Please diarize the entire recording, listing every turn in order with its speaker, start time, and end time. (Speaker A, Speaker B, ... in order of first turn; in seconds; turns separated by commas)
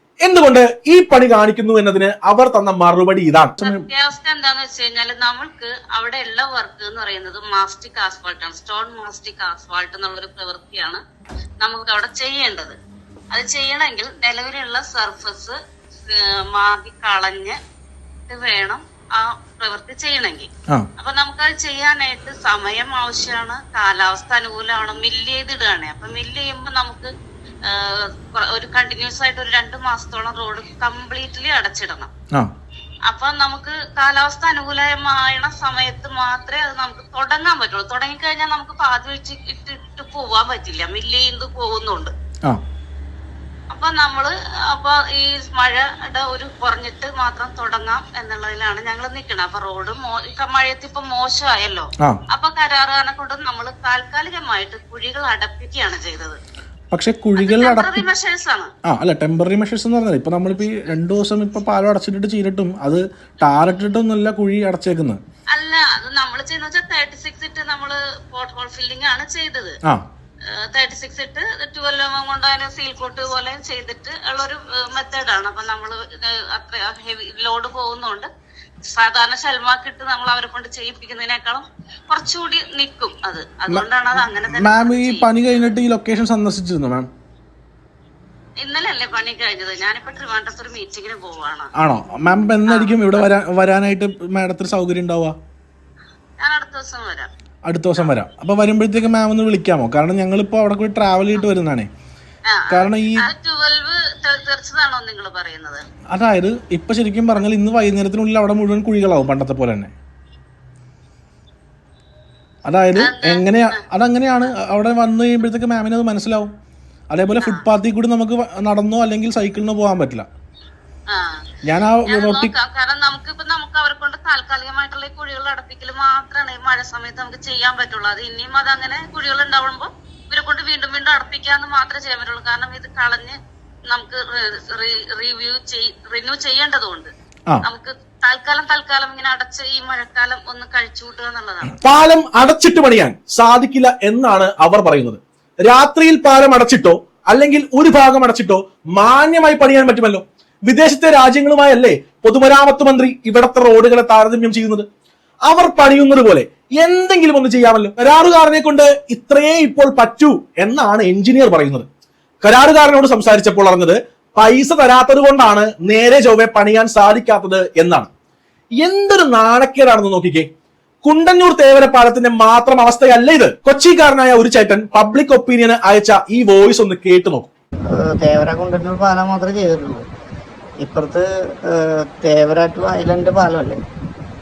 Speaker A: 0.2-3.9, Speaker B: 3.6-11.0, Speaker B: 11.6-12.8, Speaker B: 13.3-15.6, Speaker B: 16.1-17.6, Speaker B: 18.3-27.1, Speaker B: 27.6-32.1, Speaker B: 33.1-42.1, Speaker B: 43.7-56.4, Speaker A: 56.9-58.0, Speaker B: 57.4-58.7, Speaker A: 58.9-65.2, Speaker B: 65.5-69.8, Speaker B: 70.5-78.3, Speaker B: 78.8-85.8, Speaker A: 84.5-87.1, Speaker B: 88.6-91.7, Speaker A: 91.8-95.4, Speaker B: 92.7-93.2, Speaker B: 96.4-97.3, Speaker A: 97.7-101.9, Speaker B: 98.0-98.2, Speaker B: 102.5-105.8, Speaker A: 102.7-103.3, Speaker A: 106.1-109.9, Speaker A: 112.7-116.5, Speaker B: 113.0-113.8, Speaker A: 117.1-120.3, Speaker B: 117.4-117.7, Speaker B: 121.1-121.4, Speaker A: 121.6-122.5, Speaker B: 122.1-133.4, Speaker B: 133.9-137.1, Speaker B: 137.6-141.8, Speaker A: 141.8-154.9, Speaker A: 155.5-161.9, Speaker A: 162.4-168.1, Speaker A: 168.8-170.5, Speaker A: 171.0-177.5, Speaker C: 177.9-180.1, Speaker C: 180.8-183.8